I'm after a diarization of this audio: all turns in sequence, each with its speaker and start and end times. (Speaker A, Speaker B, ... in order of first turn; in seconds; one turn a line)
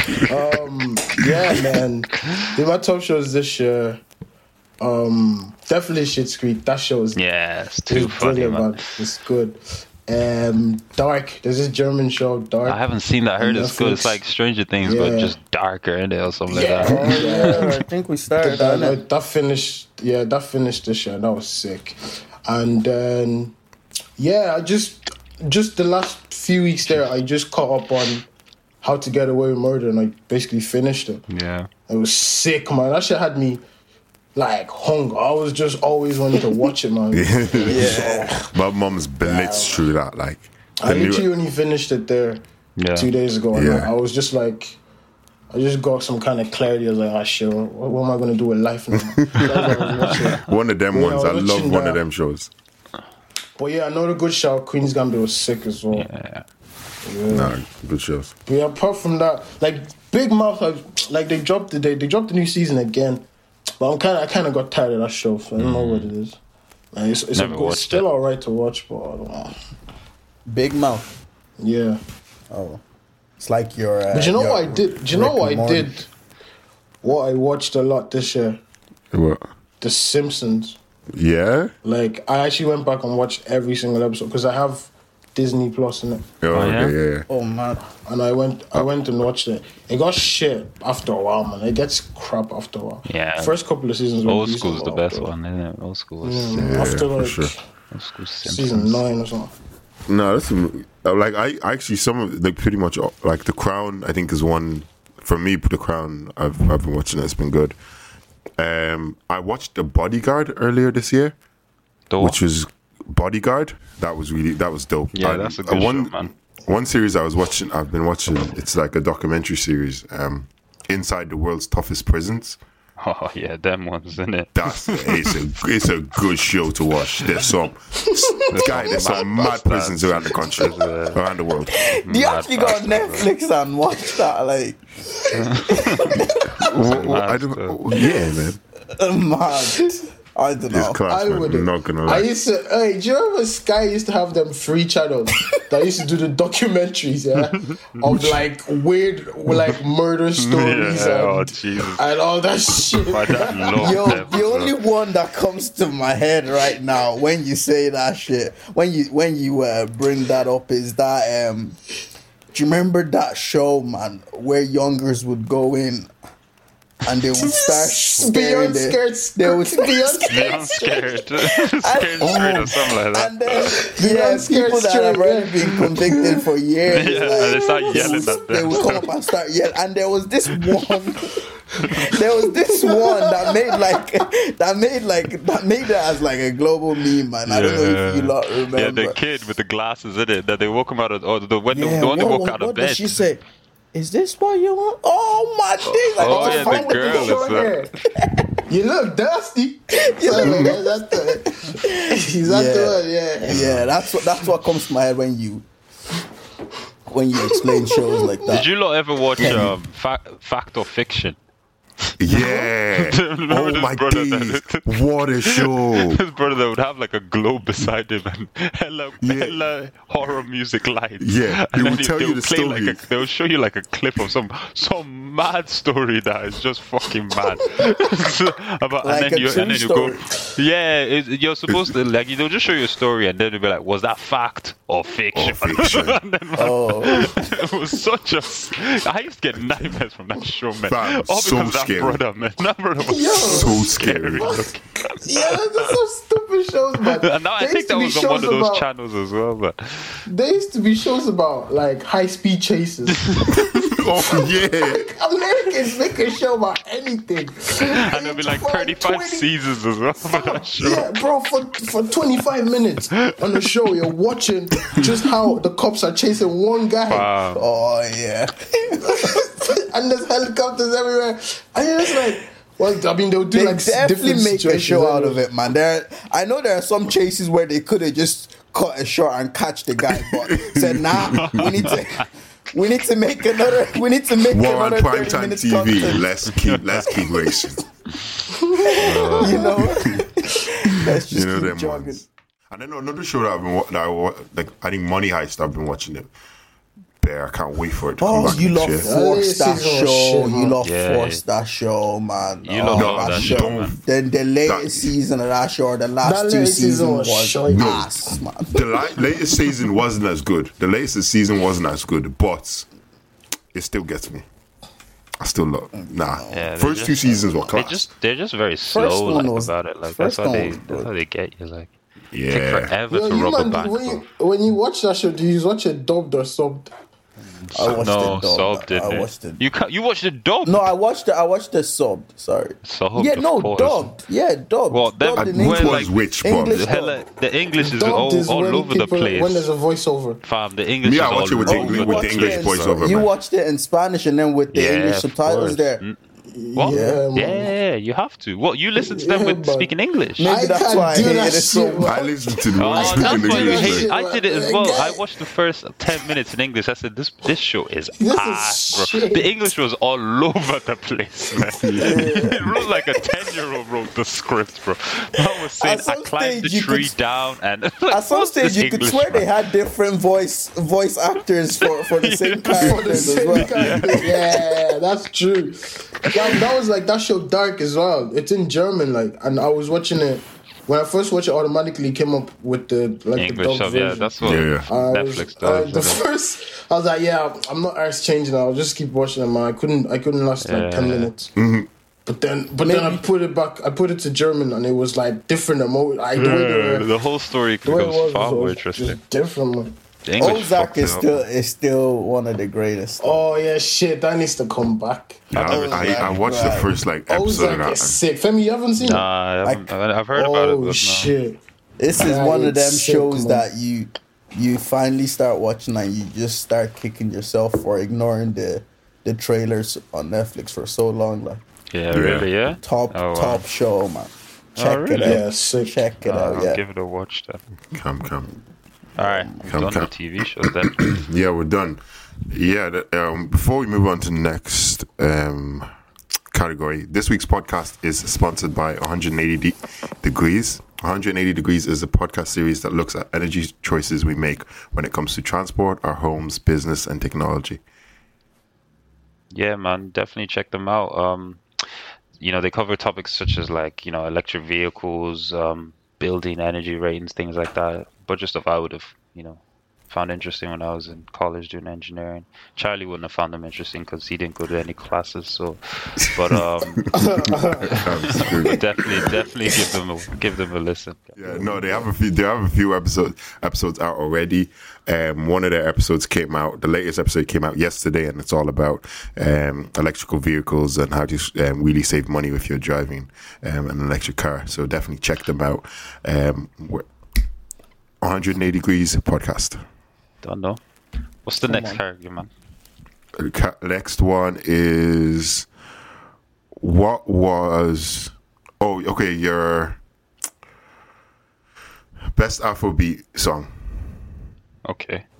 Speaker A: 0.2-4.0
Speaker A: 4.8-7.2
Speaker B: 7.2-8.8
Speaker A: 7.9-12.8
Speaker B: 12.6-17.6
Speaker A: 13.4-14.2
Speaker A: 14.8-15.3
Speaker A: 16.5-17.8
Speaker C: 16.8-19.0
Speaker A: 18.4-23.6
Speaker A: 24.2-28.3
Speaker A: 28.8-31.2
Speaker B: 31.3-31.7
Speaker A: 31.9-33.6
Speaker A: 34.4-38.5
Speaker D: 37.1-41.3
Speaker C: 37.6-38.3
Speaker A: 39.2-39.8
Speaker A: 40.8-42.4
Speaker B: 42.8-43.1
Speaker A: 43.0-44.8
Speaker D: 43.5-43.9
Speaker A: 45.5-52.0
Speaker D: 49.0-49.8
Speaker B: 49.5-50.4
Speaker D: 50.4-52.5
Speaker A: 53.6-56.1
Speaker B: 55.9-56.4
Speaker A: 57.0-57.5
Speaker D: 57.3-58.3
Speaker A: 58.5-63.2
Speaker A: 63.8-66.4
Speaker B: 65.6-66.1
Speaker A: 66.9-69.5
Speaker B: 67.3-68.1
Speaker C: 70.5-71.1
Speaker A: 71.6-72.0
Speaker C: 72.5-72.8
Speaker C: 73.4-76.0
Speaker A: 74.1-76.1
Speaker A: 77.0-78.6
Speaker D: 79.1-79.5
Speaker A: 79.8-80.8
Speaker D: 81.1-81.7
Speaker A: 81.8-86.2
Speaker D: 86.4-87.3
Speaker B: 86.5-86.9
Speaker C: 87.3-87.9
Speaker A: 88.0-95.3
Speaker B: 93.1-93.6
Speaker B: 94.2-96.9
Speaker A: 96.2-97.6
Speaker D: 96.5-97.5
Speaker B: 97.9-99.0
Speaker A: 98.4-99.5
Speaker D: 100.1-107.8
Speaker D: 108.6-111.4
Speaker B: 112.1-112.4
Speaker D: 112.2-116.1
Speaker B: 115.1-116.3
Speaker D: 116.7-122.6
Speaker B: 123.0-125.3
Speaker D: 124.5-131.8
Speaker B: 128.5-131.2
Speaker C: 131.7-134.8
Speaker B: 132.0-133.3
Speaker B: 135.3-137.8
Speaker C: 135.7-136.4
Speaker A: 135.7-136.2
Speaker D: 136.6-138.6
Speaker C: 138.9-141.0
Speaker D: 140.7-142.3
Speaker A: 141.1-154.2
Speaker B: 150.4-152.0
Speaker B: 153.0-154.7
Speaker C: 153.8-161.8
Speaker C: 162.5-166.1
Speaker C: 167.1-170.9
Speaker A: 167.4-171.1
Speaker B: 170.2-173.8
Speaker C: 171.7-189.2
Speaker A: 173.8-176.4
Speaker B: 176.9-179.0
Speaker A: 177.9-178.2
Speaker A: 182.6-184.0
Speaker B: 187.4-193.2
Speaker C: 191.7-193.4
Speaker C: 193.9-197.6
Speaker B: 196.1-198.0
Speaker A: 196.2-197.9
Speaker C: 198.2-198.5
Speaker A: 198.7-203.8
Speaker C: 199.9-205.6
Speaker D: 200.3-200.7
Speaker D: 203.5-203.8
Speaker C: 207.1-208.7
Speaker A: 207.5-208.3
Speaker B: 208.5-211.4
Speaker C: 209.4-209.7
Speaker D: 212.2-216.2
Speaker B: 212.3-245.9
Speaker D: 219.2-219.6
Speaker D: 221.2-223.0
Speaker C: 229.0-230.4
Speaker D: 235.3-236.2
Speaker C: 236.6-237.5
Speaker D: 240.8-242.2
Speaker A: 243.0-243.9
Speaker D: 243.4-244.7
Speaker A: 244.4-244.7
Speaker A: 245.2-248.9
Speaker B: 247.1-250.2
Speaker A: 250.2-253.6
Speaker B: 253.2-254.0
Speaker D: 253.7-255.1
Speaker A: 254.3-259.5
Speaker B: 257.8-261.1
Speaker A: 260.3-267.3
Speaker B: 267.1-267.6
Speaker C: 267.5-269.6
Speaker A: 269.0-275.4
Speaker C: 273.5-286.2
Speaker D: 280.2-281.7
Speaker B: 281.4-282.2
Speaker D: 284.5-287.8
Speaker A: 288.5-289.7
Speaker C: 288.7-292.2
Speaker B: 288.9-289.7
Speaker D: 289.2-290.2
Speaker D: 290.9-296.3
Speaker D: 297.2-299.1
Speaker C: 298.2-308.9
Speaker A: 299.0-300.8
Speaker B: 300.8-301.4
Speaker B: 302.6-303.9
Speaker D: 302.9-304.0
Speaker D: 304.6-305.1
Speaker A: 306.2-308.1
Speaker D: 307.7-308.1
Speaker D: 308.7-312.9
Speaker D: 313.7-314.4
Speaker D: 315.4-318.1
Speaker C: 316.0-316.7
Speaker B: 316.5-321.9
Speaker C: 318.9-321.1
Speaker D: 322.3-322.9
Speaker B: 322.5-324.3
Speaker A: 323.1-326.9
Speaker B: 327.6-330.9
Speaker C: 327.7-329.6
Speaker C: 330.6-337.2
Speaker B: 332.8-334.1
Speaker B: 334.9-339.7
Speaker D: 335.4-336.8
Speaker A: 337.8-340.4
Speaker B: 340.4-343.0
Speaker D: 341.0-343.3
Speaker C: 341.6-346.0
Speaker B: 344.7-346.2
Speaker A: 346.5-347.7
Speaker B: 346.7-350.5
Speaker C: 346.9-347.2
Speaker A: 349.0-349.9
Speaker C: 350.4-352.1
Speaker A: 350.4-355.2
Speaker D: 352.1-354.1
Speaker B: 352.8-369.5
Speaker A: 358.2-359.5
Speaker D: 361.6-362.3
Speaker C: 362.0-362.6
Speaker C: 365.8-367.1
Speaker C: 368.1-374.4
Speaker B: 372.0-374.3
Speaker A: 372.8-384.3
Speaker B: 383.4-386.2
Speaker D: 384.4-384.9
Speaker A: 384.9-391.5
Speaker B: 390.6-391.3
Speaker D: 391.6-391.9
Speaker A: 392.3-397.1
Speaker C: 392.8-393.2
Speaker B: 396.3-399.2
Speaker A: 397.8-399.9
Speaker B: 400.2-401.4
Speaker C: 400.4-403.3
Speaker A: 403.2-405.5
Speaker D: 405.5-408.2
Speaker B: 405.5-406.4
Speaker C: 405.6-406.9
Speaker A: 407.3-409.3
Speaker B: 409.0-411.3
Speaker C: 409.6-409.9
Speaker A: 410.3-411.6
Speaker C: 412.0-421.6
Speaker A: 412.1-413.6
Speaker B: 421.9-423.6
Speaker D: 422.1-422.5
Speaker C: 422.8-426.8
Speaker B: 424.8-425.4
Speaker A: 425.2-426.0
Speaker B: 426.2-427.6
Speaker D: 427.9-428.5
Speaker B: 429.2-431.1
Speaker C: 429.2-429.5
Speaker D: 429.6-430.1
Speaker D: 430.9-435.9
Speaker D: 436.5-447.8
Speaker B: 449.5-451.6
Speaker B: 452.4-467.1
Speaker A: 467.1-468.0
Speaker D: 467.2-469.3
Speaker B: 467.9-471.4
Speaker D: 471.4-487.1
Speaker D: 488.2-489.8
Speaker B: 490.4-490.8
Speaker B: 491.4-492.5
Speaker C: 491.7-492.0
Speaker D: 493.4-495.7
Speaker D: 496.8-500.0
Speaker D: 502.3-504.1
Speaker B: 504.9-505.2